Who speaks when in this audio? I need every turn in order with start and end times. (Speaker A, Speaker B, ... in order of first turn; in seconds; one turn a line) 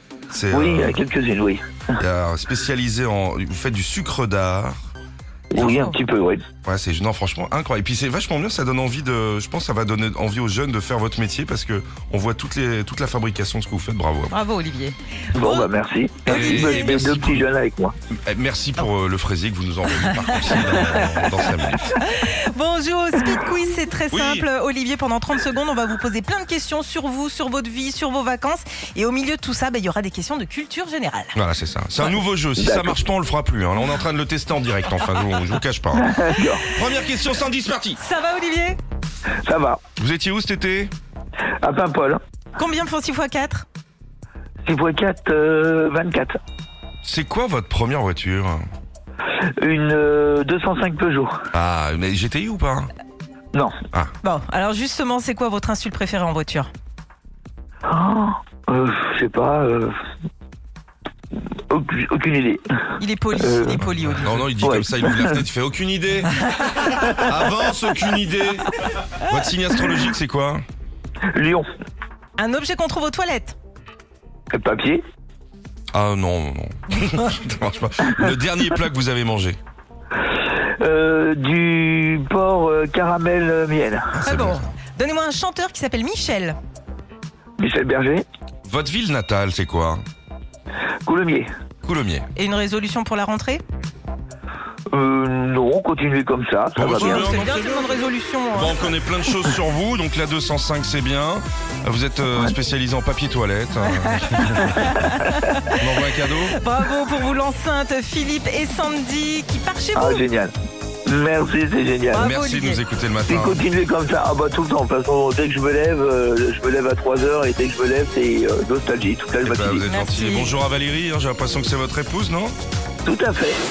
Speaker A: 0.3-1.0
Speaker B: 0.5-1.9
Speaker A: 2.0-4.8
Speaker B: 5.5-6.4
Speaker C: 5.6-6.0
Speaker A: 6.6-14.4
Speaker C: 14.3-15.7
Speaker B: 15.3-17.9
Speaker C: 16.2-17.0
Speaker A: 16.3-17.5
Speaker A: 18.3-22.0
Speaker C: 20.1-21.1
Speaker C: 21.9-31.4
Speaker A: 24.1-24.5
Speaker A: 31.4-38.0
Speaker B: 32.6-33.0
Speaker B: 36.0-36.7
Speaker C: 38.0-38.8
Speaker B: 39.4-39.8
Speaker A: 40.0-40.9
Speaker B: 41.6-42.2
Speaker C: 42.6-43.6
Speaker B: 44.6-46.4
Speaker A: 47.0-48.7
Speaker B: 49.6-51.4
Speaker A: 51.5-52.9
Speaker C: 54.2-56.7
Speaker B: 57.9-60.0
Speaker B: 61.7-62.6
Speaker C: 63.0-64.5
Speaker B: 63.4-63.8
Speaker A: 63.8-70.6
Speaker B: 64.6-65.4
Speaker B: 71.3-71.7
Speaker C: 72.4-73.6
Speaker B: 74.5-75.0
Speaker A: 75.9-79.6
Speaker B: 80.8-84.2
Speaker A: 84.1-84.7
Speaker C: 84.2-86.6
Speaker B: 87.6-88.2
Speaker A: 88.7-90.0
Speaker B: 91.0-91.5
Speaker A: 91.8-92.3
Speaker C: 92.4-93.6
Speaker B: 94.9-97.5
Speaker A: 96.8-98.0
Speaker C: 96.9-98.9
Speaker A: 98.5-105.1
Speaker C: 103.8-105.8
Speaker A: 105.8-106.6
Speaker C: 106.5-110.3
Speaker B: 110.0-110.5
Speaker B: 111.1-112.3
Speaker C: 112.1-112.8
Speaker A: 112.2-113.6
Speaker B: 113.3-119.8
Speaker A: 119.4-122.5
Speaker C: 119.9-120.6
Speaker B: 123.0-123.6